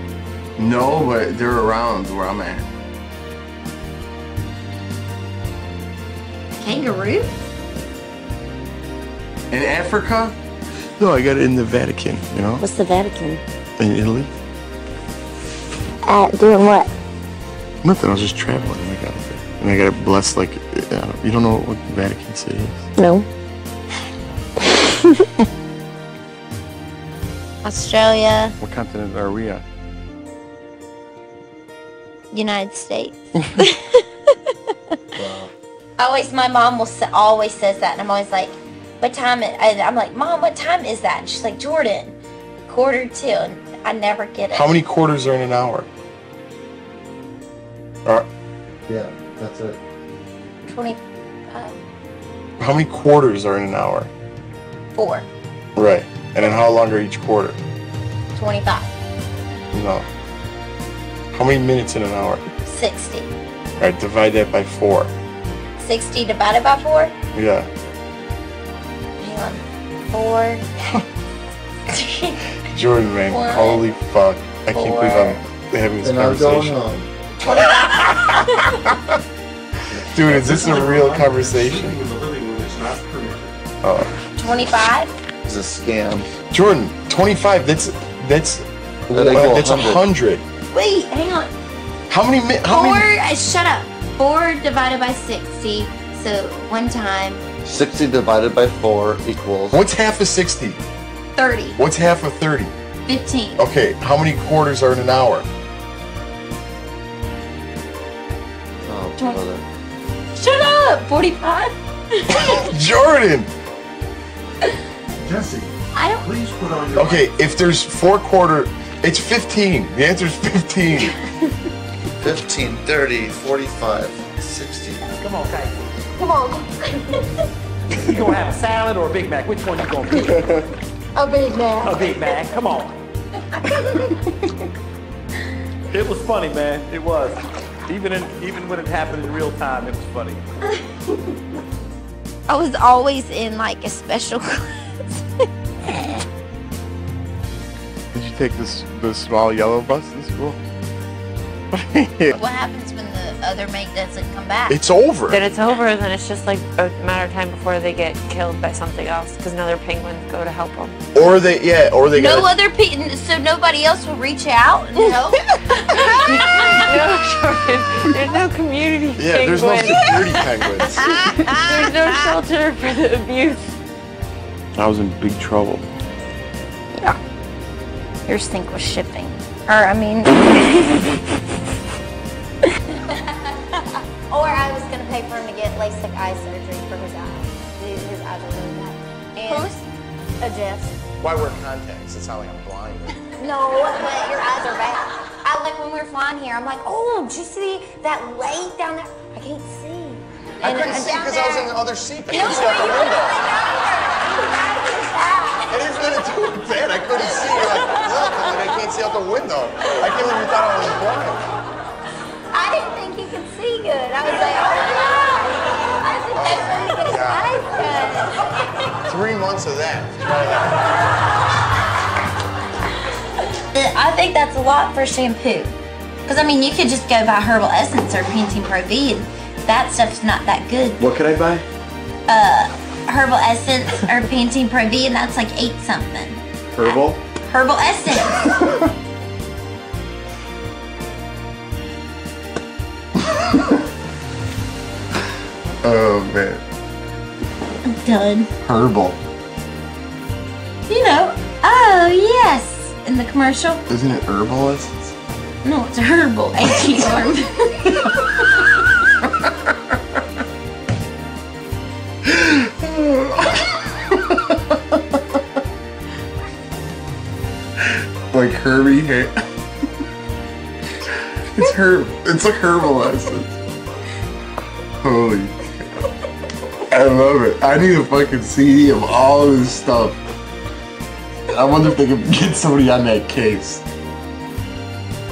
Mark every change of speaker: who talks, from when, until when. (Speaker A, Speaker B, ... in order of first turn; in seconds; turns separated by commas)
Speaker A: 0.6-2.7, Speaker B: 6.5-7.3, Speaker A: 9.5-10.4, Speaker A: 11.0-12.6, Speaker B: 12.6-13.4, Speaker A: 13.8-14.3, Speaker B: 16.0-16.9, Speaker A: 17.8-22.9, Speaker B: 23.0-23.3, Speaker B: 27.6-28.6, Speaker A: 28.6-29.6, Speaker B: 32.3-34.0, Speaker C: 35.1-35.5, Speaker B: 36.0-44.8, Speaker A: 44.5-45.9, Speaker C: 48.9-49.8, Speaker B: 50.7-51.8, Speaker A: 52.6-54.1, Speaker B: 54.9-55.3, Speaker A: 55.8-57.6, Speaker B: 58.3-58.9, Speaker A: 59.7-60.1, Speaker A: 61.3-62.4, Speaker B: 62.6-63.3, Speaker A: 63.8-65.1, Speaker B: 65.8-67.1, Speaker A: 67.3-67.7, Speaker B: 69.2-70.6, Speaker B: 71.9-72.4, Speaker A: 72.7-76.8, Speaker B: 73.3-73.8, Speaker B: 74.7-75.4, Speaker C: 76.0-77.1, Speaker A: 77.5-79.2, Speaker B: 77.5-77.8, Speaker C: 79.9-80.3, Speaker A: 80.1-82.0, Speaker D: 80.3-83.5, Speaker A: 83.8-84.1, Speaker B: 84.4-85.1, Speaker C: 85.5-86.3, Speaker A: 86.5-90.4, Speaker C: 89.1-90.0, Speaker B: 90.7-91.5, Speaker A: 92.1-93.1, Speaker B: 92.7-97.4, Speaker C: 97.7-99.8, Speaker A: 99.7-100.8, Speaker B: 101.3-101.8, Speaker A: 101.8-102.7, Speaker B: 103.1-103.7, Speaker A: 103.6-105.5, Speaker C: 108.8-109.7, Speaker B: 109.2-109.4, Speaker B: 110.3-112.7, Speaker A: 112.3-113.5, Speaker D: 115.3-115.7, Speaker B: 115.9-116.3, Speaker D: 116.2-117.2, Speaker A: 117.0-121.2, Speaker C: 122.2-125.0, Speaker E: 125.2-125.8, Speaker B: 126.2-127.3, Speaker E: 127.9-130.5, Speaker B: 131.2-132.4, Speaker E: 131.8-133.0, Speaker B: 133.5-134.2, Speaker E: 135.9-140.4, Speaker B: 142.5-145.2, Speaker A: 148.1-150.6, Speaker A: 151.7-152.4, Speaker B: 152.3-154.8, Speaker A: 154.7-155.4, Speaker F: 155.3-161.0, Speaker A: 161.2-162.5, Speaker B: 162.2-166.9, Speaker F: 166.0-170.1, Speaker A: 169.2-171.2, Speaker B: 169.9-171.9, Speaker F: 171.5-173.8, Speaker A: 174.8-175.9, Speaker B: 178.3-181.2, Speaker B: 184.3-189.8, Speaker B: 190.4-191.0, Speaker A: 191.2-193.2, Speaker B: 193.4-201.7, Speaker A: 200.6-203.4, Speaker B: 202.3-205.8, Speaker A: 205.7-211.5, Speaker B: 207.2-208.6, Speaker B: 212.5-218.4, Speaker A: 216.3-217.6, Speaker A: 219.1-220.9, Speaker B: 223.7-225.8, Speaker B: 226.3-231.0, Speaker A: 231.0-231.7, Speaker B: 232.3-238.5, Speaker A: 236.7-237.2, Speaker A: 238.5-238.9, Speaker A: 245.8-246.6, Speaker B: 247.9-248.5, Speaker A: 248.6-249.2, Speaker B: 250.9-253.8, Speaker A: 253.9-255.2, Speaker B: 255.6-258.1, Speaker A: 259.2-259.7, Speaker A: 262.2-265.4, Speaker A: 267.8-269.4, Speaker A: 271.4-273.6, Speaker A: 275.0-275.6, Speaker A: 276.9-280.2, Speaker A: 281.5-283.8